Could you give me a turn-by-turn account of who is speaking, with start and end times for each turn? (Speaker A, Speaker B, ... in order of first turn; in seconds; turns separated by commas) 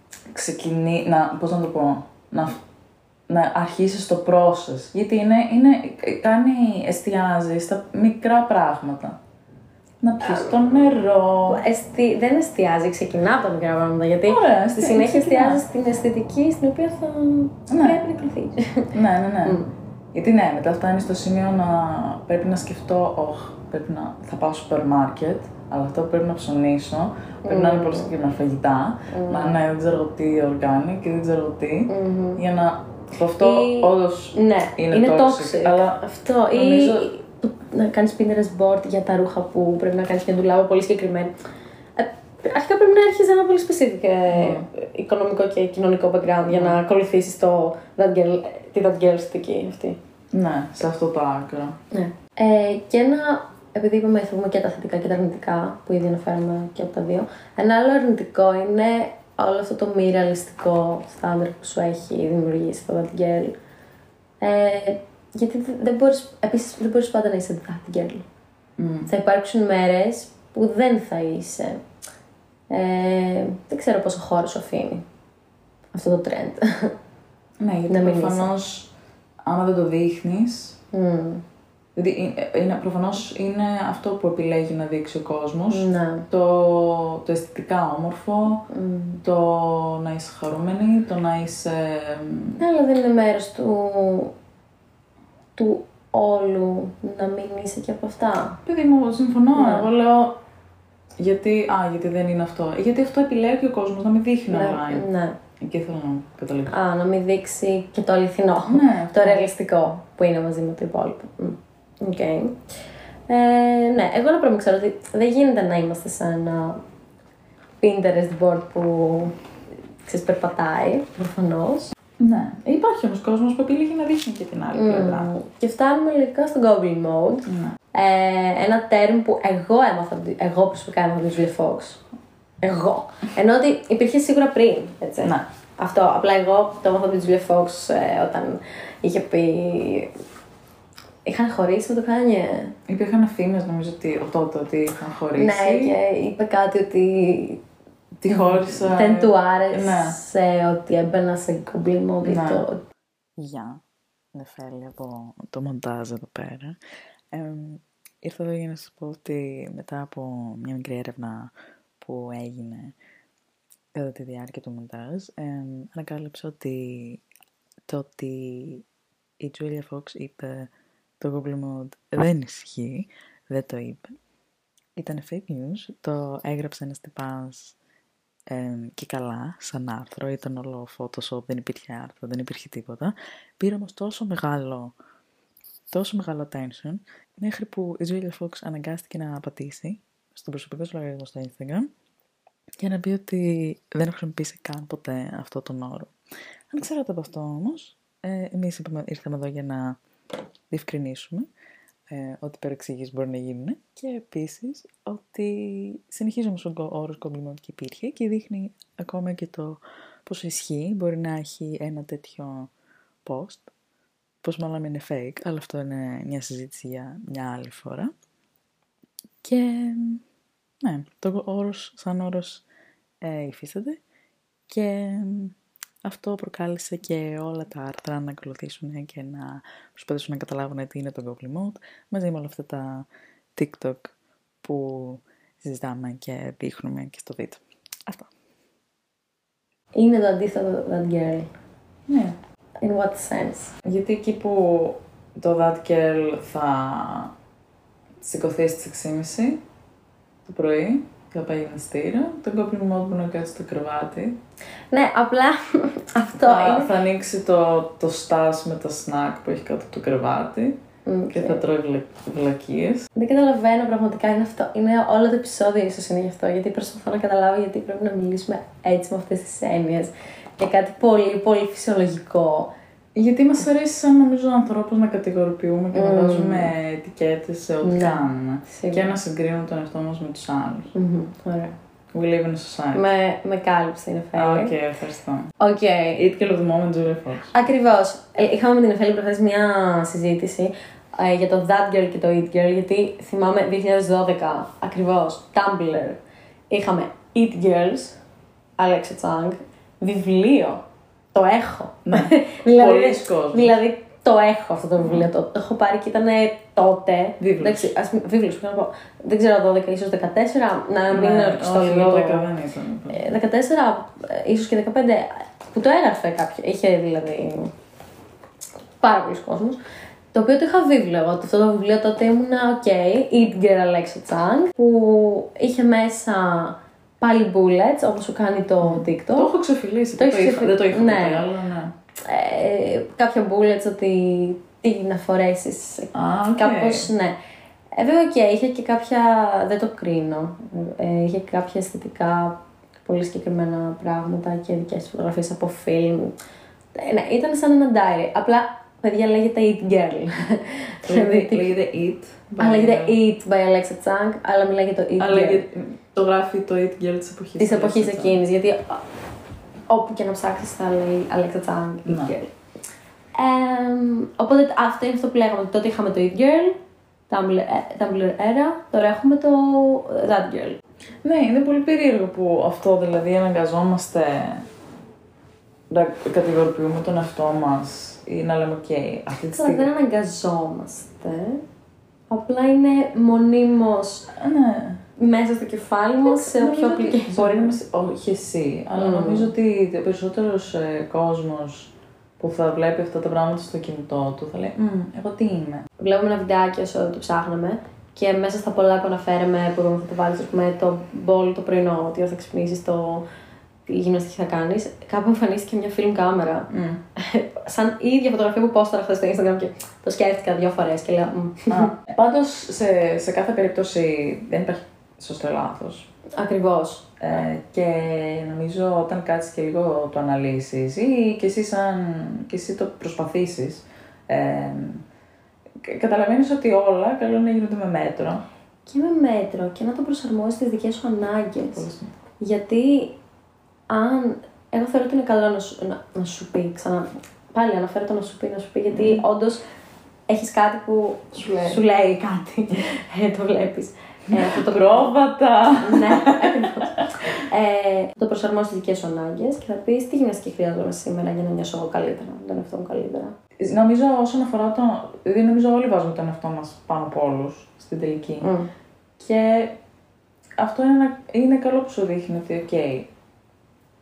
Speaker A: 0.3-2.6, Speaker A: 3.3-9.2, Speaker A: 10.0-11.6, Speaker B: 10.2-10.5, Speaker B: 11.5-18.9, Speaker A: 14.3-15.6, Speaker A: 17.7-18.0, Speaker A: 18.9-19.6, Speaker A: 20.1-36.0, Speaker B: 27.4-28.1, Speaker B: 29.1-29.6, Speaker B: 31.9-32.4, Speaker B: 33.4-41.3, Speaker A: 36.5-37.1, Speaker B: 42.0-50.0, Speaker A: 44.3-44.7, Speaker A: 46.5-46.8, Speaker A: 50.3-51.8, Speaker B: 51.9-63.5, Speaker B: 64.4-68.3, Speaker A: 68.8-69.1, Speaker B: 69.1-71.8, Speaker B: 72.7-75.0, Speaker B: 75.9-76.9, Speaker A: 77.6-78.9, Speaker B: 77.9-78.5, Speaker A: 79.5-80.8, Speaker B: 80.9-81.4, Speaker A: 82.0-88.7, Speaker B: 85.7-86.3, Speaker B: 88.7-89.2, Speaker A: 89.2-92.6, Speaker B: 92.6-94.3, Speaker B: 95.6-98.6, Speaker A: 98.7-100.4, Speaker B: 99.5-99.9, Speaker A: 101.2-105.1, Speaker B: 104.5-105.4, Speaker A: 105.6-106.8, Speaker B: 106.7-112.6, Speaker A: 108.7-109.5, Speaker B: 113.3-116.8, Speaker B: 117.8-119.3, Speaker B: 120.1-121.9, Speaker A: 122.2-125.3, Speaker B: 124.7-132.0, Speaker A: 127.5-127.8, Speaker B: 132.6-140.1, Speaker B: 141.3-142.7, Speaker A: 142.9-145.9, Speaker B: 145.4-147.6, Speaker A: 148.2-150.2, Speaker B: 148.3-152.8, Speaker A: 152.2-152.6, Speaker A: 153.4-153.8, Speaker A: 154.3-156.8, Speaker A: 157.3-162.9, Speaker A: 163.9-167.2, Speaker A: 167.9-168.8, Speaker A: 169.4-174.2, Speaker A: 175.0-177.8, Speaker A: 178.5-184.9, Speaker A: 185.9-191.9, Speaker A: 192.8-196.1, Speaker A: 196.7-200.0, Speaker A: 200.7-201.5, Speaker A: 202.1-212.7, Speaker A: 213.2-213.7, Speaker A: 214.4-218.1, Speaker A: 219.4-220.2, Speaker A: 220.8-222.6, Speaker A: 223.2-224.0, Speaker A: 224.7-238.3, Speaker B: 239.9-241.5, Speaker A: 242.1-242.3, Speaker B: 242.8-243.8, Speaker A: 243.8-247.3, Speaker A: 248.2-249.6, Speaker A: 250.5-254.4, Speaker B: 254.9-256.9, Speaker A: 256.4-260.8, Speaker B: 261.1-261.6, Speaker A: 261.3-263.1, Speaker B: 263.1-272.7, Speaker A: 273.1-280.9, Speaker B: 275.9-276.7, Speaker B: 277.8-279.1, Speaker B: 280.9-281.7, Speaker A: 282.1-283.1, Speaker B: 282.9-284.7, Speaker A: 284.4-285.5, Speaker B: 285.6-286.2, Speaker A: 286.2-287.5, Speaker B: 287.5-296.2, Speaker B: 296.7-298.2, Speaker B: 298.8-300.8, Speaker B: 301.3-312.5, Speaker A: 302.1-303.8, Speaker A: 305.0-305.3, Speaker A: 307.4-307.9, Speaker A: 311.1-313.3, Speaker B: 313.1-317.7, Speaker B: 319.0-319.8, Speaker B: 320.3-329.5, Speaker A: 328.8-331.9, Speaker B: 330.2-331.5, Speaker B: 332.2-337.4, Speaker A: 336.1-337.1, Speaker B: 338.0-346.3, Speaker B: 346.9-351.7, Speaker A: 351.1-353.2, Speaker B: 352.6-355.6, Speaker A: 355.2-358.4, Speaker B: 357.6-359.0, Speaker B: 359.9-362.5, Speaker A: 362.1-362.3, Speaker B: 363.4-366.8, Speaker B: 367.3-370.8, Speaker A: 371.2-374.7, Speaker A: 375.9-379.9, Speaker B: 379.5-381.6, Speaker B: 382.3-384.3, Speaker A: 384.3-385.0, Speaker B: 385.2-387.7, Speaker A: 386.2-395.9, Speaker B: 388.9-389.5, Speaker B: 396.0-403.2, Speaker B: 403.9-411.9, Speaker A: 406.7-407.0, Speaker A: 411.7-416.1, Speaker B: 416.4-417.2, Speaker A: 417.2-425.0, Speaker A: 425.8-428.4, Speaker B: 428.9-431.9, Speaker A: 431.7-432.1, Speaker B: 432.4-433.1, Speaker B: 433.9-439.6, Speaker A: 438.9-439.2, Speaker B: 440.3-445.1, Speaker A: 441.3-441.8, Speaker A: 444.3-447.1, Speaker B: 445.8-453.3, Speaker A: 453.6-458.5, Speaker B: 458.4-458.7, Speaker A: 459.2-459.7, Speaker A: 460.6-463.1